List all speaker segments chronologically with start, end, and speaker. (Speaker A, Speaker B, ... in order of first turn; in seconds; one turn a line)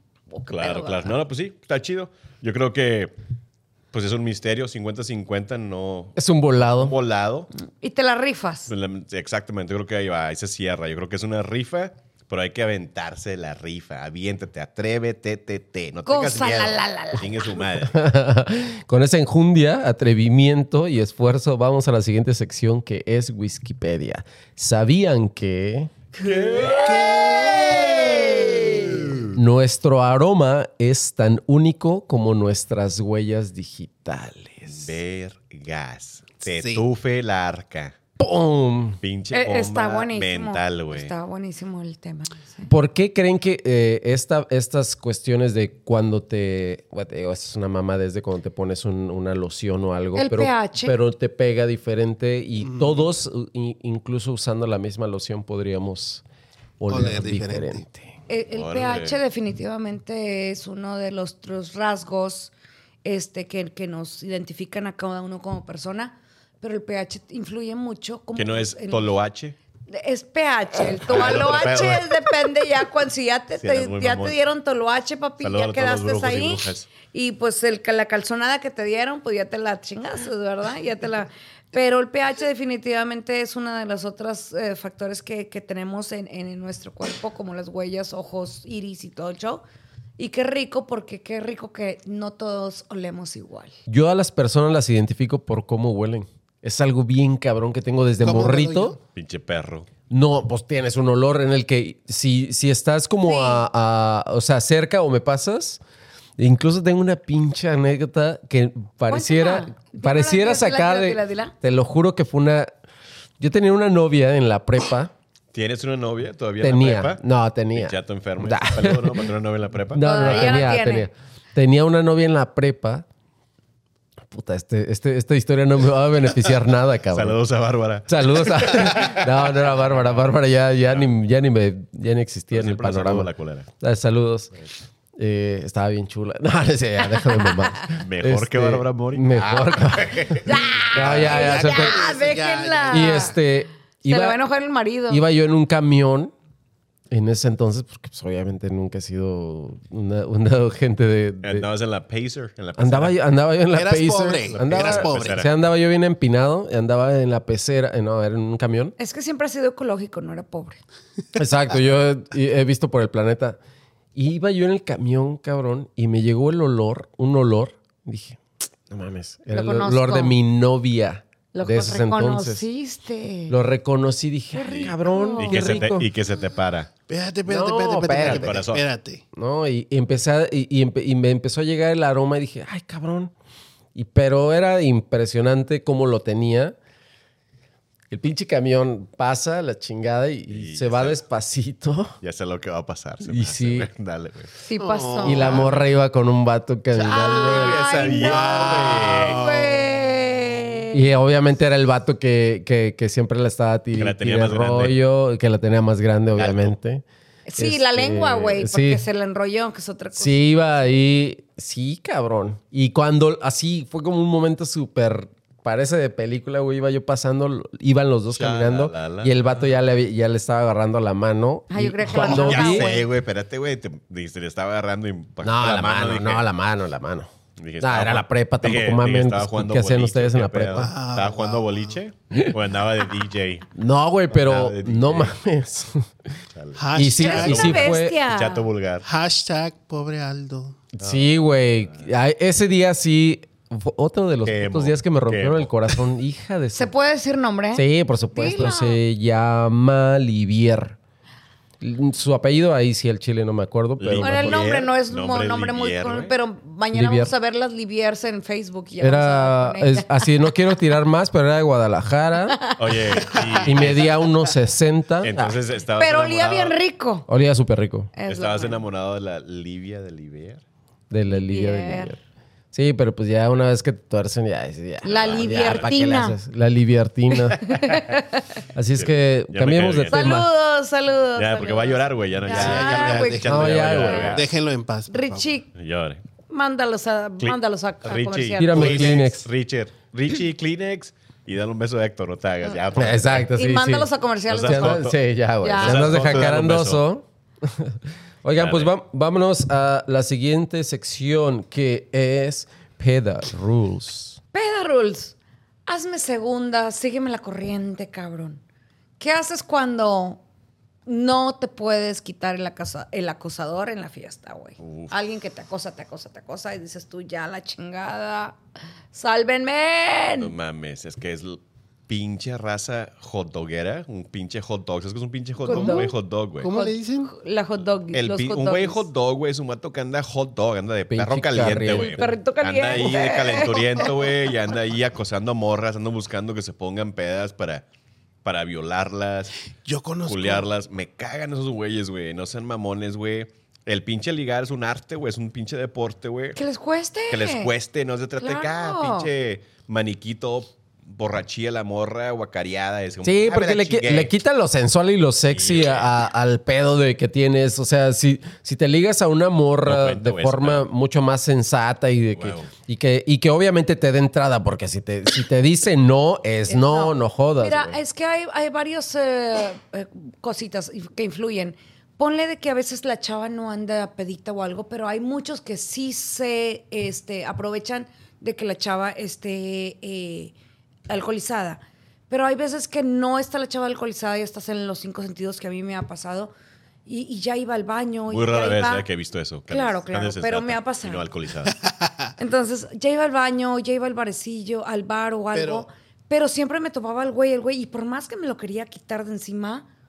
Speaker A: 0.3-1.1
Speaker B: 0.5-3.1
Speaker B: 3.9-7.5
Speaker C: 6.2-7.0
Speaker A: 7.6-8.7
Speaker B: 8.7-18.0
Speaker A: 16.1-17.6
Speaker C: 17.9-25.9
Speaker B: 26.2-29.3
Speaker A: 26.3-28.2
Speaker D: 26.6-29.1
Speaker C: 29.3-34.9
Speaker B: 34.7-38.0
Speaker D: 36.5-36.9
Speaker C: 38.2-39.0
Speaker B: 39.0-41.1
Speaker A: 39.3-42.7
Speaker C: 42.7-56.2
Speaker A: 50.1-51.0
Speaker D: 52.6-53.1
Speaker C: 56.8-58.1
Speaker D: 56.9-57.8
Speaker A: 58.3-62.5
Speaker B: 58.5-59.2
Speaker A: 63.0-69.1
Speaker B: 68.3-69.6
Speaker A: 69.9-89.6
Speaker B: 71.0-72.2
Speaker B: 73.6-74.4
Speaker B: 75.4-76.9
Speaker A: 90.2-93.8
Speaker C: 93.9-99.0
Speaker D: 98.2-99.0
Speaker B: 99.2-99.9
Speaker C: 100.1-105.8
Speaker A: 103.2-103.7
Speaker C: 106.4-112.7
Speaker A: 109.1-111.5
Speaker C: 113.4-115.1
Speaker B: 115.5-117.2
Speaker C: 116.6-119.3
Speaker B: 117.7-120.7
Speaker C: 119.9-123.0
Speaker A: 120.0-121.1
Speaker C: 124.3-127.4
Speaker B: 127.1-130.0
Speaker C: 128.1-134.5
Speaker B: 132.5-133.7
Speaker C: 135.2-142.0
Speaker B: 138.0-141.5
Speaker A: 140.4-143.4
Speaker D: 141.0-143.3
Speaker C: 142.9-144.4
Speaker A: 144.1-145.2
Speaker C: 145.1-146.3
Speaker C: 147.1-151.7
Speaker B: 151.4-153.2
Speaker C: 152.8-158.9
Speaker D: 153.7-155.4
Speaker B: 154.5-155.5
Speaker A: 159.0-160.8
Speaker C: 161.3-163.6
Speaker C: 164.2-172.7
Speaker A: 169.5-170.4
Speaker A: 171.5-173.6
Speaker C: 173.5-176.1
Speaker A: 174.5-175.9
Speaker B: 174.7-176.9
Speaker D: 177.1-179.2
Speaker C: 177.5-178.6
Speaker B: 178.2-178.8
Speaker C: 179.3-183.3
Speaker C: 183.9-186.8
Speaker C: 188.1-192.2
Speaker B: 190.5-191.2
Speaker B: 192.2-194.5
Speaker C: 193.2-193.9
Speaker A: 194.6-195.6
Speaker D: 194.8-195.8
Speaker C: 195.2-197.8
Speaker B: 195.4-195.8
Speaker B: 196.9-199.4
Speaker A: 197.0-201.0
Speaker D: 198.0-200.1
Speaker C: 200.9-207.0
Speaker B: 204.0-205.0
Speaker B: 206.3-206.8
Speaker A: 207.5-210.4
Speaker C: 207.6-209.0
Speaker C: 210.2-222.9
Speaker B: 218.3-219.7
Speaker A: 221.7-223.1
Speaker B: 222.1-226.4
Speaker C: 225.4-230.9
Speaker B: 227.6-233.7
Speaker D: 230.8-232.0
Speaker C: 233.7-236.1
Speaker B: 234.3-235.4
Speaker B: 236.6-239.1
Speaker D: 236.8-237.8
Speaker C: 236.9-238.2
Speaker A: 237.2-238.7
Speaker D: 239.0-240.8
Speaker C: 240.9-246.9
Speaker B: 241.0-241.3
Speaker B: 244.4-246.0
Speaker A: 246.8-249.0
Speaker C: 247.7-251.0
Speaker C: 251.8-254.7
Speaker B: 254.0-256.3
Speaker A: 254.2-260.3
Speaker C: 256.9-257.3
Speaker C: 259.0-262.6
Speaker A: 262.5-262.8
Speaker B: 262.8-264.2
Speaker D: 263.4-263.8
Speaker C: 263.6-265.6
Speaker B: 265.2-266.8
Speaker A: 266.0-267.3
Speaker C: 267.3-268.1
Speaker A: 268.1-268.8
Speaker B: 268.3-270.6
Speaker C: 271.1-272.2
Speaker A: 271.3-272.1
Speaker C: 272.7-277.7
Speaker A: 275.0-276.4
Speaker B: 275.1-275.9
Speaker A: 277.6-278.4
Speaker B: 277.7-278.0
Speaker C: 278.8-280.5
Speaker B: 278.9-280.4
Speaker A: 280.1-284.4
Speaker B: 281.4-284.5
Speaker D: 282.5-285.6
Speaker C: 283.4-284.4
Speaker A: 285.1-285.7
Speaker B: 285.7-286.2
Speaker A: 286.5-289.2
Speaker B: 287.4-293.5
Speaker C: 288.6-289.5
Speaker C: 292.9-294.1
Speaker A: 293.5-295.1
Speaker B: 294.5-295.2
Speaker C: 294.6-304.4
Speaker A: 295.6-296.4
Speaker B: 295.8-297.0
Speaker B: 298.6-298.9
Speaker A: 304.5-305.4
Speaker A: 305.9-308.6
Speaker A: 309.2-310.4
Speaker A: 311.1-318.6
Speaker B: 314.8-315.1
Speaker A: 319.1-320.5
Speaker B: 320.4-326.7
Speaker A: 325.6-326.1
Speaker D: 325.7-326.1
Speaker D: 326.6-327.3
Speaker A: 326.7-329.1
Speaker B: 328.1-337.9
Speaker C: 331.1-332.3
Speaker A: 331.9-334.1
Speaker B: 338.4-339.6
Speaker D: 339.8-340.7
Speaker B: 340.3-346.6
Speaker A: 346.6-347.7
Speaker B: 347.3-354.3
Speaker A: 348.4-349.3
Speaker C: 353.2-368.0
Speaker B: 355.5-356.2
Speaker B: 359.9-360.9
Speaker B: 362.4-362.7
Speaker A: 366.7-380.5
Speaker A: 381.1-386.5
Speaker A: 387.1-389.1
Speaker B: 388.3-391.8
Speaker A: 389.7-391.3
Speaker D: 391.7-392.3
Speaker A: 392.4-399.9
Speaker D: 395.5-395.9